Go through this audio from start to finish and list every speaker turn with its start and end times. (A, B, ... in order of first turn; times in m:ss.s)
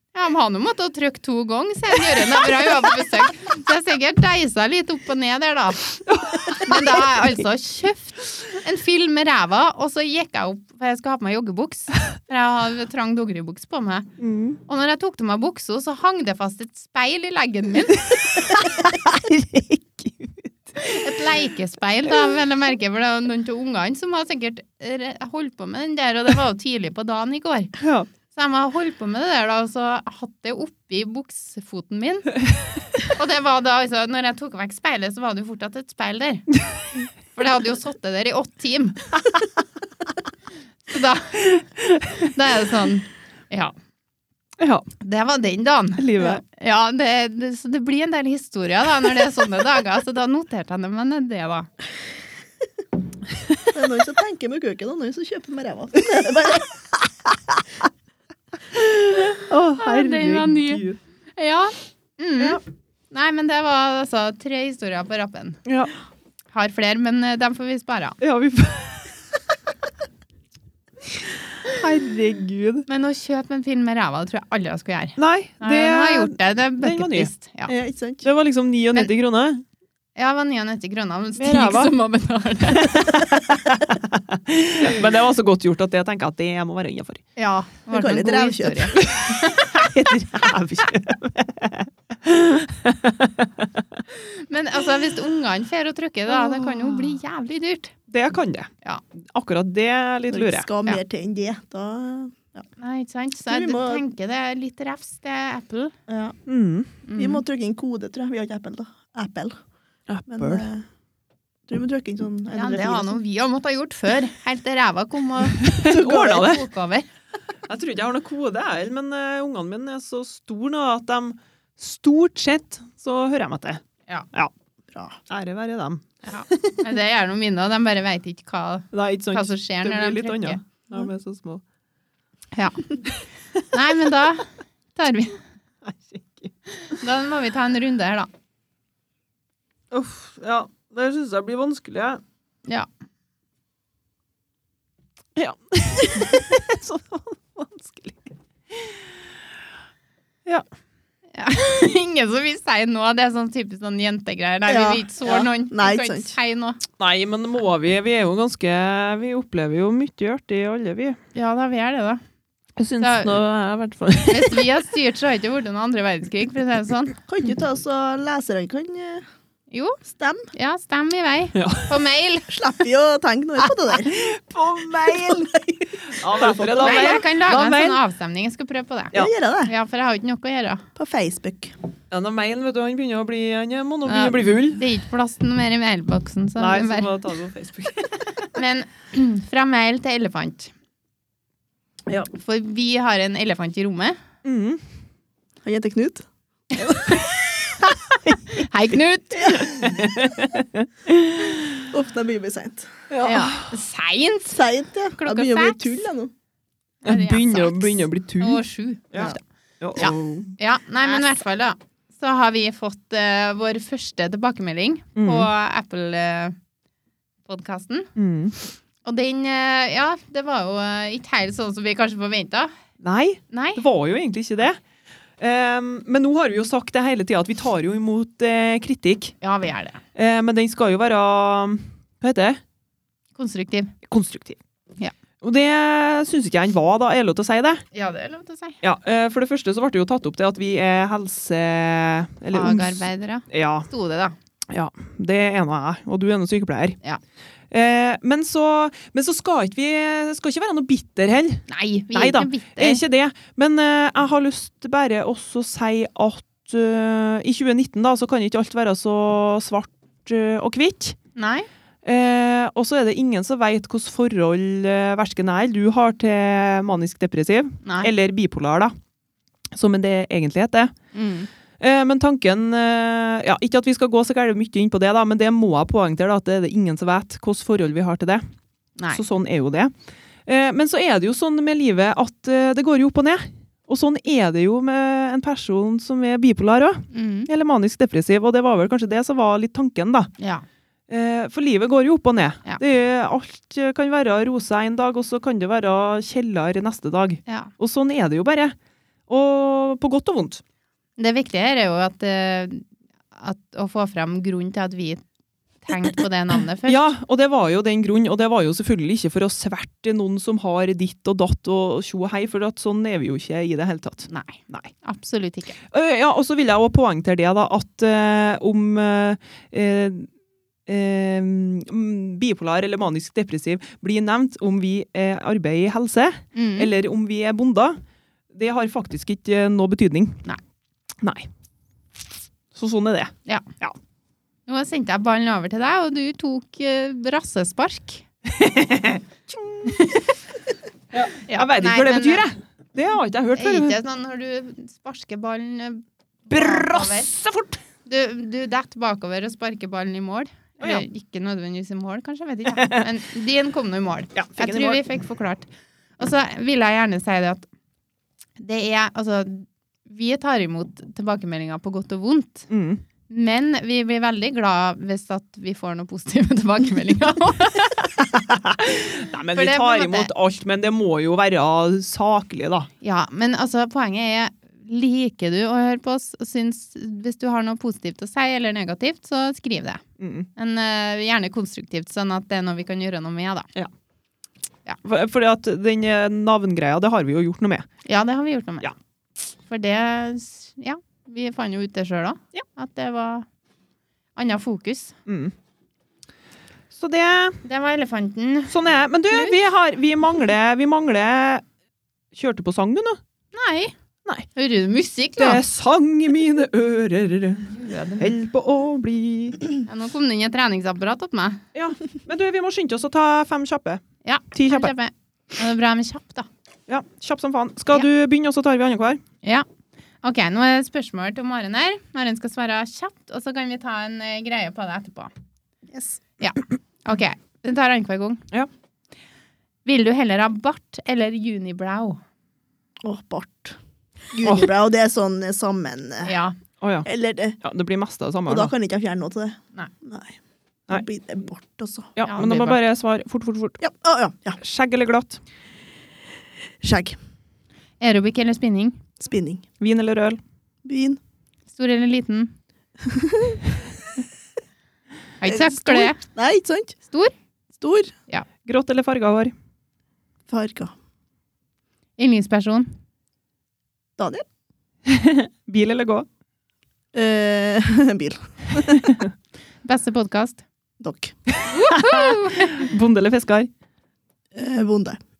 0:00.1-0:05.9 A
0:06.0-0:07.3 B
0:06.6-0:14.1 A
0:14.2-0:14.6 B
0:14.6-0:18.6 A
0:18.0-0:20.5 B
0:20.8-0:27.7 A
0:27.8-0:28.1 B
0:28.3-0:32.4 A
0:33.0-0:36.4 A
0:37.3-0:39.1 A
0:40.9-0:41.5 A
0:41.8-0:42.2 B
0:42.2-0:43.7 A
0:44.6-0:44.9 B
0:45.0-0:51.7 A
0:46.0-0:46.4 B
0:53.7-0:56.7 C
0:58.7-1:01.0 B
0:59.8-1:00.8 A
1:01.4-1:05.6 A
1:05.6-1:05.9 B
1:06.5-1:08.2 A
1:08.2-1:09.2 B
1:11.6-1:12.8 B
1:12.9-1:17.7 A
1:15.2-1:17.3 B
1:17.7-1:18.2 C
1:18.2-1:19.6 B
1:20.2-1:23.3 A
1:21.4-1:21.9 B
1:22.7-1:27.2 B
1:27.4-1:29.7 A
1:27.9-1:29.0 C
1:29.0-1:34.0 B
1:34.1-1:37.9 A
1:36.3-1:37.2 B
1:38.1-1:38.7 B
1:39.3-1:40.7 B
1:40.3-1:42.6 C
1:42.8-1:45.9 A
1:43.5-1:44.0 C
1:46.1-1:46.4 C
1:46.5-1:46.9 B
1:47.0-1:47.4 A
1:47.2-1:49.6 C
1:50.1-1:50.7 B
1:50.3-1:50.8 C
1:51.7-1:53.2 C
1:52.5-1:57.1 A
1:55.6-1:56.6 B
1:55.9-1:56.5 C
1:57.7-2:03.8 B
2:04.9-2:05.2 C
2:05.3-2:06.0 B
2:06.2-2:10.6 A
2:08.9-2:11.6 B
2:12.5-2:13.0 A
2:13.7-2:15.4 A
2:15.8-2:16.5 B
2:17.0-2:18.3 A
2:19.9-2:22.2 B
2:25.4-2:28.9 B
2:31.3-2:36.8 A
2:34.7-2:36.3 C
2:37.0-2:41.2 B
2:41.3-2:42.2 A
2:42.8-2:44.6 B
2:43.0-2:43.4 A
2:44.3-2:47.2 A
2:47.3-2:49.2 C
2:49.7-2:50.0 A
2:50.1-2:50.5 C
2:50.5-2:52.5 A
2:51.5-2:51.9 B
2:52.5-2:54.2 C
2:53.9-2:58.0 B
2:55.1-2:55.4 C
2:56.3-2:57.2 C
2:56.8-2:59.1 A
2:59.1-2:59.7 C
2:59.6-3:00.8 A
3:01.0-3:01.7 C
3:02.1-3:04.8 B
3:04.0-3:07.1 A
3:06.6-3:08.5 B
3:08.5-3:10.7 A
3:12.3-3:14.2 A
3:14.4-3:14.8 B
3:15.6-3:16.2 C
3:16.8-3:17.5 A
3:18.5-3:19.9 A
3:19.5-3:21.8 B
3:21.9-3:22.9 C
3:23.1-3:23.8 B
3:23.2-3:24.6 A
3:24.5-3:26.3 C
3:25.2-3:26.0 A
3:27.0-3:29.4 A
3:27.0-3:30.4 B
3:30.0-3:30.5 C
3:30.0-3:36.6 A
3:35.2-3:35.5 B
3:37.4-3:38.1 A
3:38.2-3:38.6 B
3:39.0-3:42.7 A
3:43.0-3:44.8 B
3:43.5-3:43.8 A
3:45.4-3:49.4 B
3:49.4-3:50.0 A
3:50.1-3:52.6 B
3:53.4-3:53.9 A
3:54.1-3:54.6 B
3:55.4-3:57.8 B
3:57.9-3:58.8 A
3:58.8-4:03.9 B
4:02.5-4:04.3 A
4:04.7-4:07.0 B
4:07.7-4:21.2 B
4:11.7-4:13.0 A
4:21.4-4:21.7 A
4:22.0-4:28.9 B
4:27.8-4:28.1 A
4:29.7-4:30.9 B
4:31.1-4:31.5 A
4:31.8-4:38.4 B
4:39.1-4:39.9 B
4:40.4-4:50.3 B
4:47.1-4:47.5 A
4:50.4-4:50.6 A
4:51.1-4:58.7 B
4:59.3-5:00.6 B
5:01.2-5:05.2 A
5:05.8-5:07.0 A
5:06.9-5:14.9 B
5:14.3-5:15.8 A
5:15.9-5:20.3 B
5:20.9-5:28.0 B
5:26.5-5:26.9 A
5:28.5-5:30.4 B
5:31.2-5:31.5 B
5:32.7-5:33.9 B
5:34.7-5:38.2 A
5:38.5-5:40.0 B
5:39.8-5:40.3 A
5:41.1-5:44.0 B
5:41.4-5:42.5 A
5:43.5-5:47.3 A
5:46.5-5:47.8 B
5:48.0-5:55.7 A
5:52.7-5:53.1 B
5:54.3-5:55.0 B
5:56.2-5:57.7 A
5:58.6-6:02.7 A
6:02.7-6:03.0 B
6:03.3-6:08.1 A
6:08.2-6:12.9 B
6:09.5-6:10.3 A
6:13.0-6:20.0 A
6:20.2-6:20.5 B
6:20.6-6:23.7 A
6:25.0-6:27.9 B
6:28.0-6:28.9 A
6:29.7-6:33.5 A
6:34.4-6:35.2 A
6:35.2-6:35.5 B
6:36.9-6:37.6 B
6:37.6-6:38.7 A
6:38.7-6:41.6 B
6:42.3-6:43.2 B
6:43.5-6:43.9 A
6:44.5-6:45.6 A
6:45.4-6:49.6 B
6:47.7-6:48.3 A
6:49.8-6:51.6 A
6:51.7-6:54.0 B
6:54.2-6:56.5 A
6:54.5-6:54.9 B
6:56.9-6:59.2 B
7:00.2-7:05.3 A
7:05.9-7:06.2 C
7:06.4-7:08.4 A
7:09.8-7:12.2 A
7:13.0-7:13.8 C
7:14.3-7:16.3 C
7:14.4-7:14.7 B
7:16.2-7:16.6 A
7:16.8-7:17.1 B
7:17.0-7:17.6 C
7:17.6-7:18.7 B
7:18.5-7:20.4 C
7:20.9-7:22.6 C
7:22.2-7:23.8 B
7:22.2-7:22.8 A
7:23.8-7:24.6 C
7:24.6-7:25.4 B
7:26.8-7:27.2 C
7:28.0-7:29.0 A
7:29.2-7:29.6 C
7:29.8-7:30.4 B
7:30.8-7:31.2 C
7:31.7-7:32.5 A
7:33.0-7:33.6 C
7:35.4-7:36.2 A
7:35.4-7:36.9 C
7:37.8-7:38.1 C
7:38.6-7:39.5 B
7:40.5-7:40.9 C
7:42.2-7:42.9 A
7:44.2-7:44.4 C
7:45.0-7:46.2 B
7:47.1-7:49.2 C
7:49.8-7:50.6 A
7:51.0-7:51.4 C
7:51.5-7:53.7 B
7:51.7-7:52.9 A
7:54.5-7:55.2 C